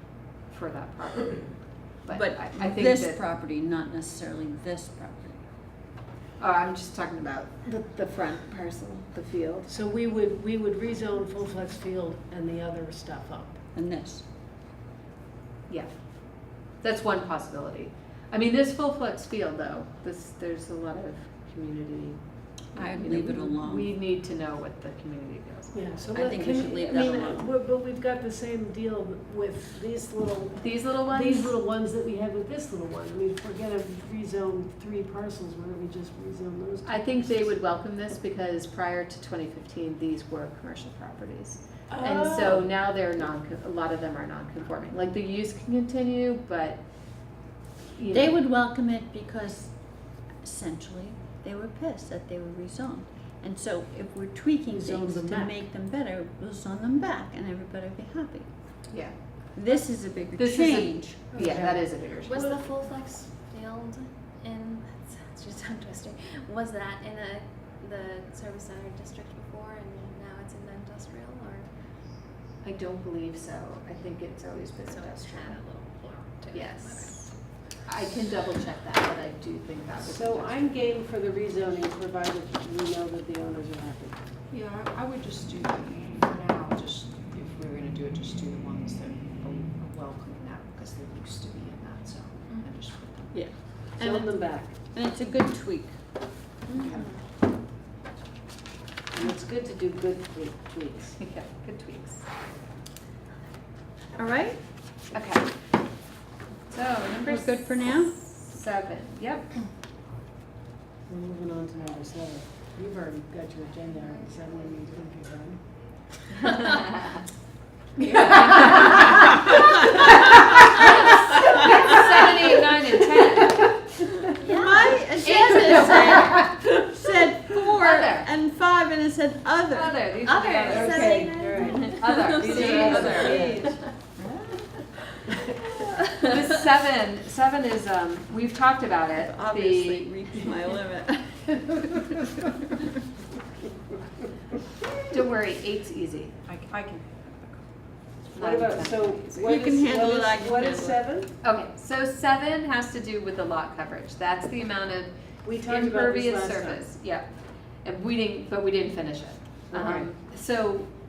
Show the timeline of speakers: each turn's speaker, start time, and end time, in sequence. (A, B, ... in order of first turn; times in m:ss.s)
0:00.5-0:03.2 A
0:02.1-0:05.4 B
0:06.4-0:09.7 A
0:09.7-0:13.6 C
0:13.7-0:14.2 B
0:16.8-0:22.2 A
0:22.7-0:23.9 B
0:22.7-0:26.9 A
0:25.7-0:37.5 C
0:26.1-0:27.5 B
0:30.6-0:31.6 A
0:36.8-0:46.8 A
0:41.9-0:42.7 C
0:47.9-0:48.3 A
0:48.1-0:49.8 B
0:50.4-0:58.4 B
0:54.7-0:55.6 C
0:59.6-1:01.2 B
1:00.4-1:02.6 A
1:01.3-1:02.4 C
1:02.2-1:11.7 D
1:12.6-1:15.6 A
1:14.8-1:17.2 D
1:16.5-1:20.7 A
1:20.0-1:24.2 C
1:24.5-1:33.4 E
1:33.3-1:34.3 B
1:34.0-1:34.7 C
1:34.9-1:36.0 B
1:36.7-1:37.1 C
1:36.7-1:37.2 D
1:39.1-1:41.2 C
1:41.2-1:42.2 A
1:44.2-1:44.6 B
1:45.1-1:45.5 A
1:46.7-1:49.5 A
1:47.2-1:48.2 B
1:51.1-1:55.6 C
1:58.2-1:58.9 A
2:00.8-2:03.7 A
2:04.4-2:13.8 B
2:04.4-2:04.8 D
2:05.2-2:06.4 A
2:07.7-2:08.3 A
2:09.7-2:11.2 A
2:10.3-2:13.7 D
2:10.7-2:13.6 C
2:11.9-2:13.7 A
2:12.6-2:13.5 E
2:16.2-2:20.1 A
2:19.2-2:22.4 B
2:25.1-2:26.3 A
2:26.5-2:27.2 E
2:28.3-2:29.4 A
2:28.4-2:31.3 C
2:29.3-2:31.0 B
2:31.4-2:35.1 A
2:35.4-2:36.8 C
2:35.6-2:37.3 A
2:37.8-2:40.9 A
2:39.7-2:40.1 C